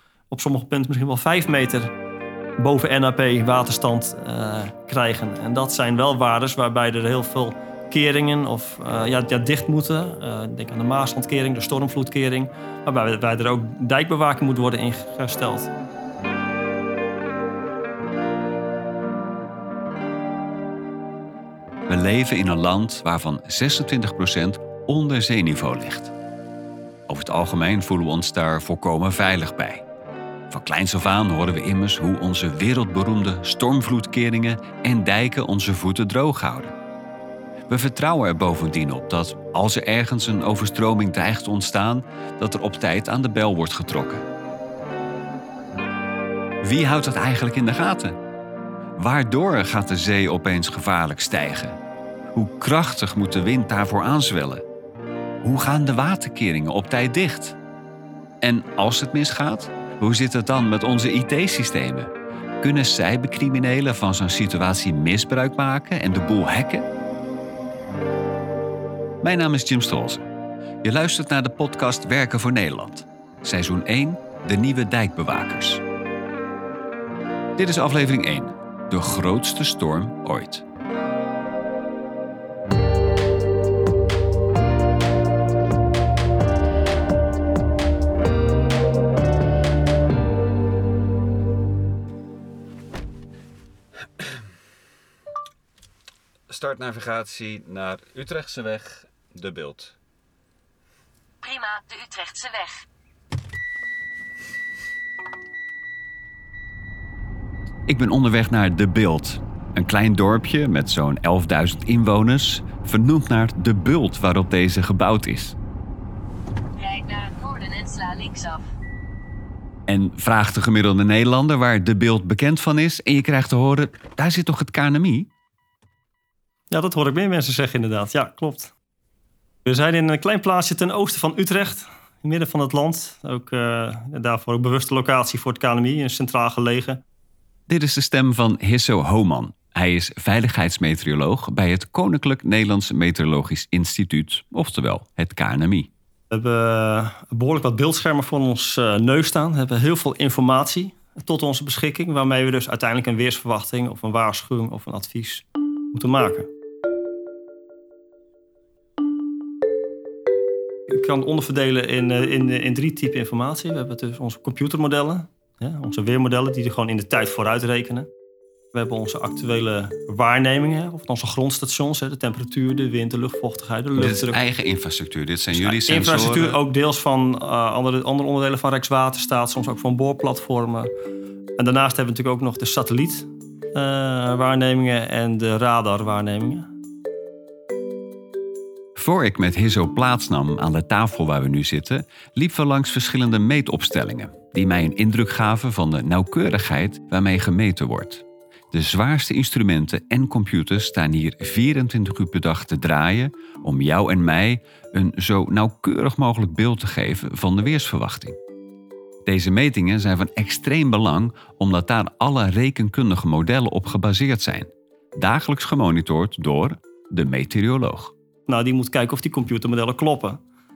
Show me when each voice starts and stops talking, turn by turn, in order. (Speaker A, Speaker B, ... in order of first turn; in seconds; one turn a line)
Speaker A: 0.3-1.9
Speaker A: 2.6-15.7
Speaker B: 21.9-26.1
Speaker B: 27.1-29.9
Speaker B: 30.5-36.7
Speaker B: 37.7-44.3
Speaker B: 46.6-48.2
Speaker B: 49.0-51.8
Speaker B: 52.3-54.6
Speaker B: 55.4-57.6
Speaker B: 58.4-62.1
Speaker B: 62.6-66.9
Speaker B: 69.2-70.3
Speaker B: 70.8-75.8
Speaker B: 77.6-80.6
Speaker B: 96.5-100.0
Speaker C: 101.4-102.8
Speaker B: 107.9-115.6
Speaker C: 116.8-118.6
Speaker B: 119.9-125.3
Speaker A: 126.7-128.7
Speaker A: 129.7-137.0
Speaker B: 137.7-145.9
Speaker A: 146.3-156.5
Speaker A: 160.9-168.1
Speaker A: 168.7-174.4
Speaker B: 174.0-176.6
Speaker A: 175.5-180.9
Speaker A: 181.6-186.7
Speaker B: 189.0-208.4
Speaker B: 209.3-218.1
Speaker A: 218.5-220.4